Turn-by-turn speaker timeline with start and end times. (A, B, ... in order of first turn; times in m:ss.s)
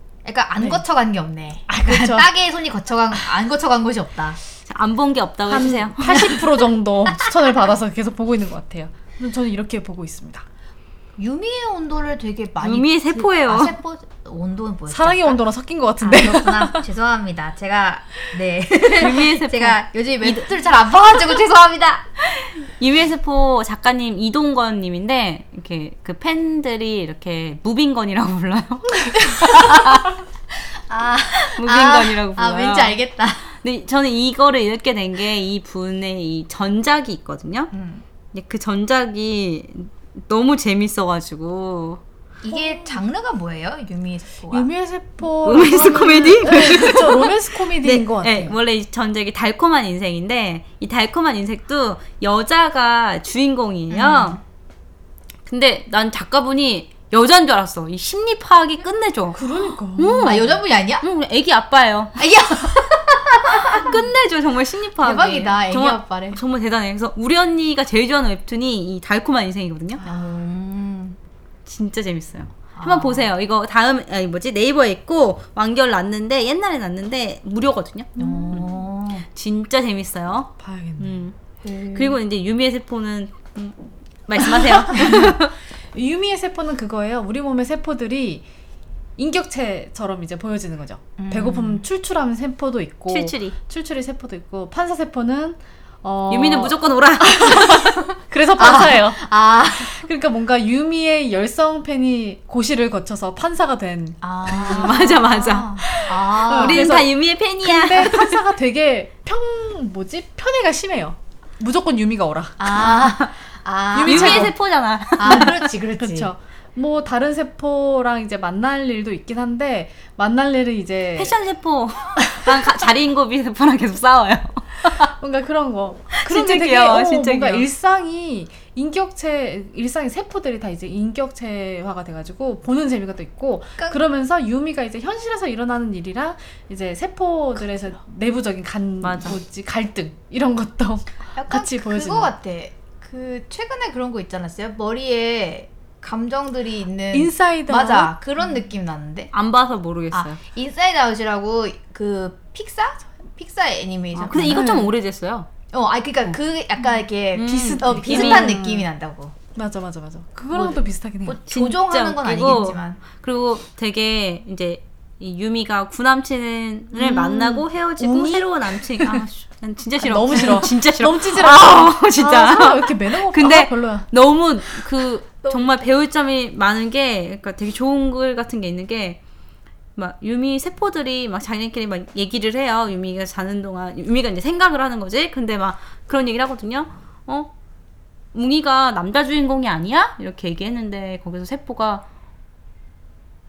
0:00.2-0:04.4 A
0:01.7-0:02.3 B
0:04.7-0:06.4 C
0:05.5-0:10.4 B
0:06.1-0:06.3 A
0:07.1-0:07.3 A
0:11.2-0:15.4 A
0:12.6-0:13.7 C
0:14.9-0:16.8 B
0:16.0-0:22.0 A
0:18.9-0:20.5 C
0:22.2-0:30.2 C
0:30.9-0:33.5 A
0:31.4-0:33.0 C
0:33.5-0:37.7 C
0:37.7-0:38.0 A
0:38.3-0:42.0 C
0:42.4-0:44.7 A
0:42.5-0:42.8 B
0:44.5-0:48.6 B
0:45.4-0:54.4 C
0:53.9-0:54.4 A
0:55.4-0:59.4 C
0:59.3-1:00.4 B
0:59.9-1:02.2 C
1:00.2-1:01.0 A
1:02.2-1:03.9 A
1:03.6-1:10.0 C
1:05.0-1:06.4 A
1:10.0-1:11.2 A
1:11.6-1:18.7 C
1:12.8-1:13.3 A
1:18.2-1:18.7 B
1:18.2-1:19.2 A
1:19.3-1:21.4 C
1:20.6-1:21.2 B
1:21.6-1:22.2 A
1:21.9-1:23.8 C
1:24.3-1:25.5 C
1:24.4-1:28.4 B
1:29.2-1:39.2 B
1:31.2-1:31.8 A
1:33.1-1:33.6 C
1:36.3-1:38.0 C
1:38.6-1:40.0 A
1:39.8-1:45.2 B
1:44.2-1:47.0 A
1:44.5-1:48.4 C
1:45.8-1:53.1 B
1:52.6-1:54.5 A
1:53.0-1:53.3 C
1:53.9-1:54.5 B
1:54.0-1:55.6 C
1:55.2-1:56.3 A
1:55.2-2:01.4 B
2:01.2-2:05.1 C
2:04.9-2:22.3 B
2:06.1-2:07.7 C
2:19.0-2:19.4 C
2:21.3-2:29.3 A
2:27.1-2:28.1 B
2:29.3-2:30.4 C
2:30.1-2:34.8 A
2:34.2-2:35.5 C
2:34.4-2:34.9 B
2:35.7-2:39.3 A
2:37.3-2:38.6 C
2:37.4-2:38.9 B
2:39.5-2:41.4 B
2:40.5-2:43.0 A
2:41.5-2:59.2 C
2:46.9-2:49.2 B
2:47.1-2:47.6 A
2:50.0-2:54.1 B
2:55.4-2:55.9 A
3:00.0-3:07.5 C
3:08.3-3:12.0 C